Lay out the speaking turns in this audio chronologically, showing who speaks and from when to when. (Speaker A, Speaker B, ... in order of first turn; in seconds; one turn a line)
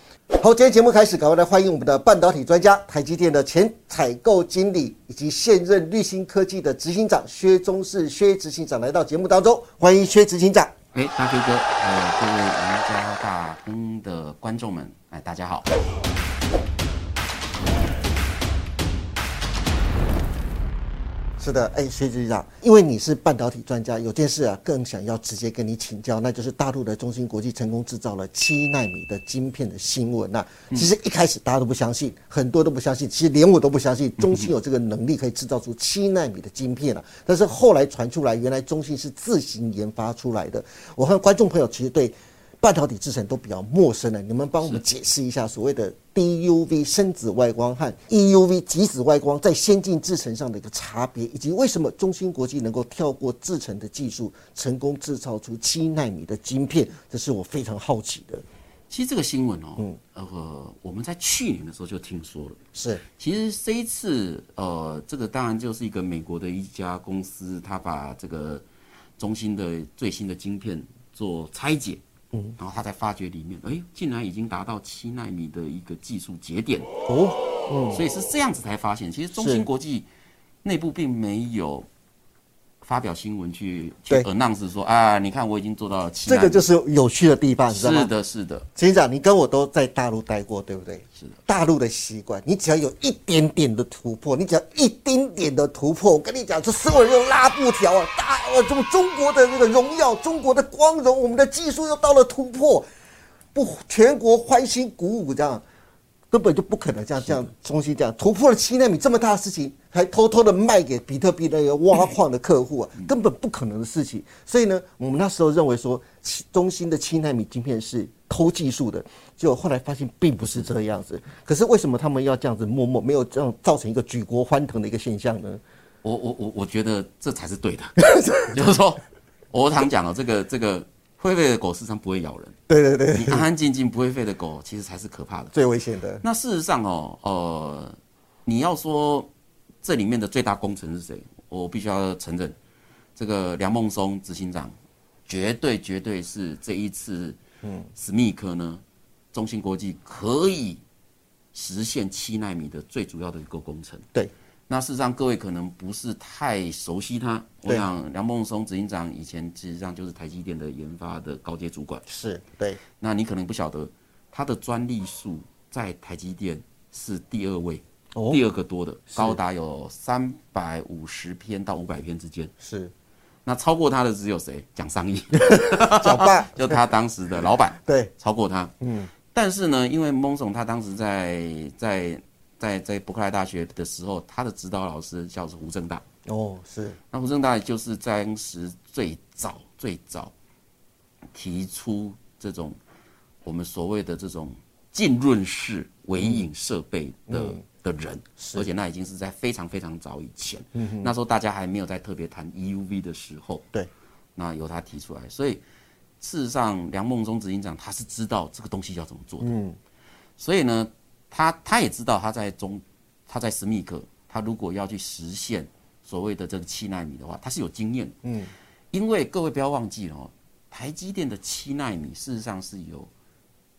Speaker A: 0.4-10.7
Speaker B: 10.9-15.7
Speaker A: 21.4-58.4
Speaker B: 34.2-34.5
Speaker B: 58.9-62.6
Speaker A: 62.7-63.0
Speaker B: 63.2-68.6
Speaker B: 69.2-72.0
Speaker B: 72.6-76.9
Speaker A: 77.1-78.0
Speaker B: 77.9-80.1
Speaker A: 79.3-79.7
Speaker B: 80.6-81.9
Speaker B: 82.8-86.7
Speaker A: 86.3-88.1
Speaker B: 87.7-88.7
Speaker A: 88.8-102.8
Speaker A: 103.5-105.6
Speaker A: 106.3-125.6
Speaker B: 126.0-132.6
Speaker A: 128.0-128.5
Speaker A: 132.7-133.5
Speaker B: 133.1-135.5
Speaker A: 135.5-136.2
Speaker B: 136.2-139.3
Speaker B: 139.8-142.6
Speaker B: 143.2-144.7
Speaker B: 145.3-147.4
Speaker A: 147.6-147.9
Speaker B: 147.9-150.8
Speaker B: 151.5-154.1
Speaker B: 154.7-162.0
Speaker A: 162.1-162.8
Speaker B: 163.0-172.5
Speaker A: 168.2-168.4
Speaker A: 169.1-169.4
Speaker A: 172.6-172.9
Speaker B: 173.5-178.7
Speaker A: 175.4-176.8
Speaker A: 177.8-178.1
Speaker A: 178.8-179.1
Speaker B: 179.3-186.0
Speaker A: 186.3-187.0
Speaker B: 187.1-190.3
Speaker B: 191.3-192.8
Speaker B: 193.4-203.7
Speaker A: 196.2-196.4
Speaker A: 197.3-197.6
Speaker A: 198.4-198.7
Speaker A: 200.8-201.1
Speaker B: 204.4-205.6
Speaker B: 206.2-209.5
Speaker A: 209.4-209.8
Speaker B: 210.4-218.2
Speaker A: 218.2-218.5
Speaker B: 218.9-223.1